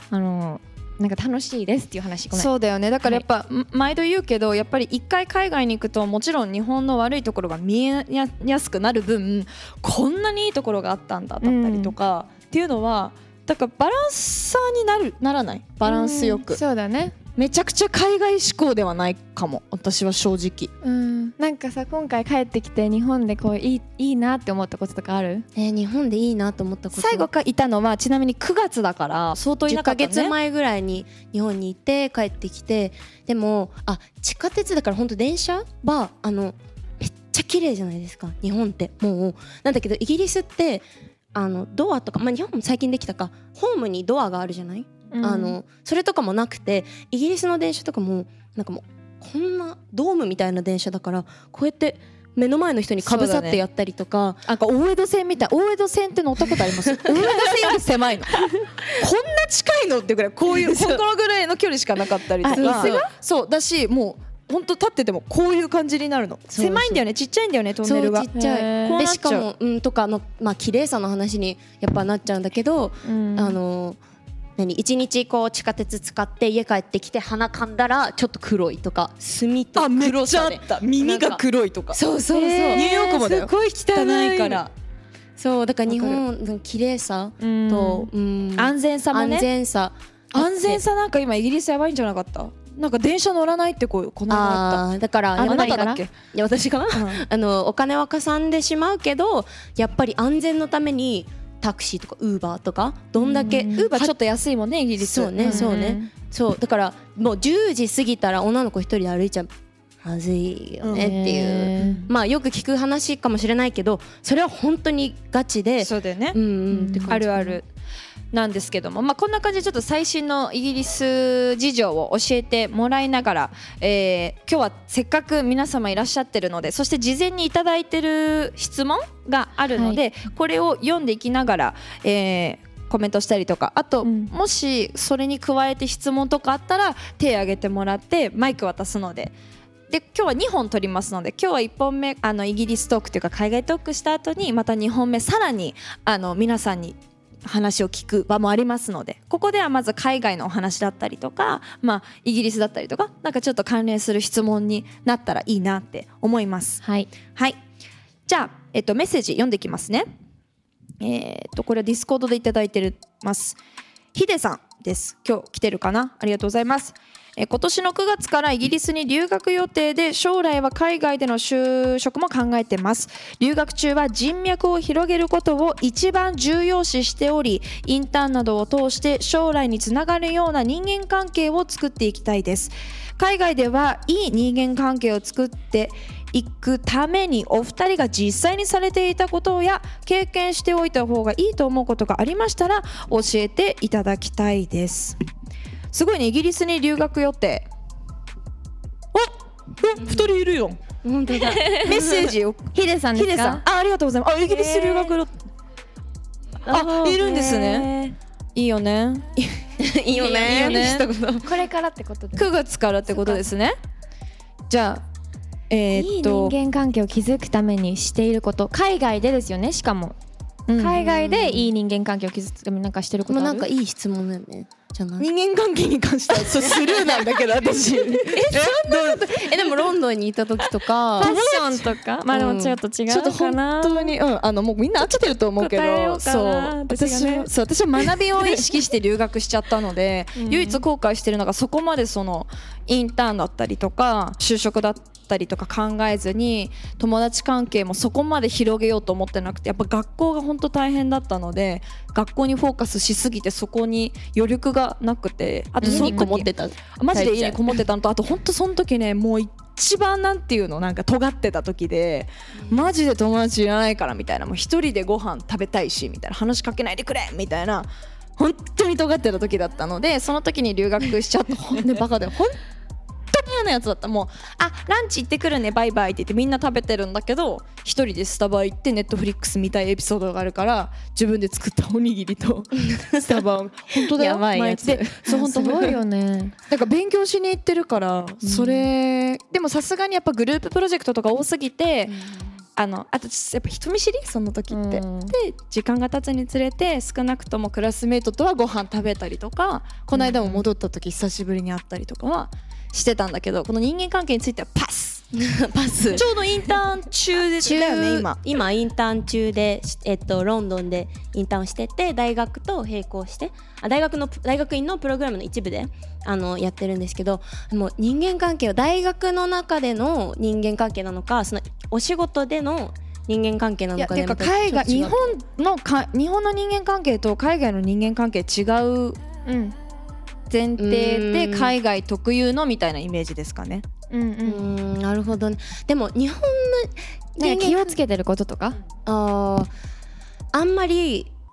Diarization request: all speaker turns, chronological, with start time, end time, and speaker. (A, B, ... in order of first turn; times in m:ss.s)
0:00.1-0:02.5 A
0:02.3-0:16.6 B
0:11.4-0:11.9 A
0:15.8-0:17.1 A
0:17.4-0:20.7 B
0:20.8-0:25.4 A
0:25.5-0:27.3 C
0:26.9-0:30.3 B
0:29.6-0:54.4 C
0:45.1-0:45.6 A
0:53.0-0:53.6 B
0:54.4-0:58.4 B
0:57.0-0:57.5 C
0:58.9-1:08.3 B
1:02.4-1:03.0 C
1:02.5-1:03.1 A
1:06.5-1:07.0 C
1:07.8-1:14.0 C
1:08.3-1:09.0 A
1:08.9-1:09.5 B
1:13.0-1:13.6 A
1:14.6-1:24.7 C
1:19.8-1:24.6 B
1:25.4-1:30.8 C
1:25.9-1:26.2 B
1:27.4-1:29.5 B
1:30.3-1:36.1 B
1:34.3-1:44.1 C
1:35.4-1:36.0 A
1:36.9-1:37.2 B
1:43.2-1:44.1 A
1:43.5-1:46.0 B
1:45.0-1:49.5 C
1:45.4-1:46.1 A
1:50.0-1:57.6 C
1:50.8-1:51.1 B
1:50.9-1:52.0 A
1:51.8-1:52.1 B
1:55.8-1:56.4 B
1:56.7-1:57.2 A
1:57.1-1:57.6 B
1:58.3-2:19.3 B
2:14.0-2:14.3 A
2:19.9-2:36.8 B
2:36.8-2:37.1 A
2:38.3-2:40.1 B
2:41.0-2:43.6 B
2:44.1-3:15.2 B
3:15.9-3:17.6 B
3:19.1-3:20.8 B
3:21.0-3:22.3 C
3:21.8-3:25.3 B
3:22.7-3:23.6 A
3:24.5-3:25.1 C
3:26.6-3:28.1 C
3:26.7-3:27.9 B
3:28.5-3:29.3 B
3:29.8-3:31.5 C
3:30.1-3:31.1 B
3:31.4-3:32.5 A
3:32.4-3:33.7 B
3:33.1-3:33.4 A
3:34.7-3:35.0 B
3:35.7-3:36.5 B
3:35.9-3:40.2 A
3:40.7-3:41.0 B
3:40.7-3:43.7 A
3:41.0-3:41.7 C
3:43.2-3:45.3 C
3:45.2-3:49.8 B
3:46.3-3:51.3 C
3:51.2-3:52.0 B
3:51.2-3:54.1 A
3:52.3-3:52.8 C
3:53.1-4:32.6 B
3:55.0-3:57.5 A
3:58.1-3:58.6 A
4:00.4-4:00.8 A
4:15.8-4:17.7 C
4:15.8-4:16.3 A
4:22.6-4:22.9 C
4:33.3-4:46.0 B
4:42.9-4:43.4 C
4:43.9-4:45.9 C
4:45.3-4:46.5 A
4:46.7-4:52.1 B
4:48.4-4:48.8 A
4:52.1-4:52.5 C
4:52.8-5:05.2 B
4:54.7-4:55.3 A
5:00.2-5:00.6 C
5:05.3-5:06.2 C
5:06.1-5:08.4 B
5:07.6-5:25.4 C
5:24.0-5:29.2 B
5:29.4-5:29.7 A
5:30.5-5:33.8 B
5:30.8-5:31.7 C
5:34.1-5:34.7 A
5:34.4-5:38.0 C
5:37.4-5:38.8 A
5:39.0-5:39.7 C
5:40.5-5:41.3 C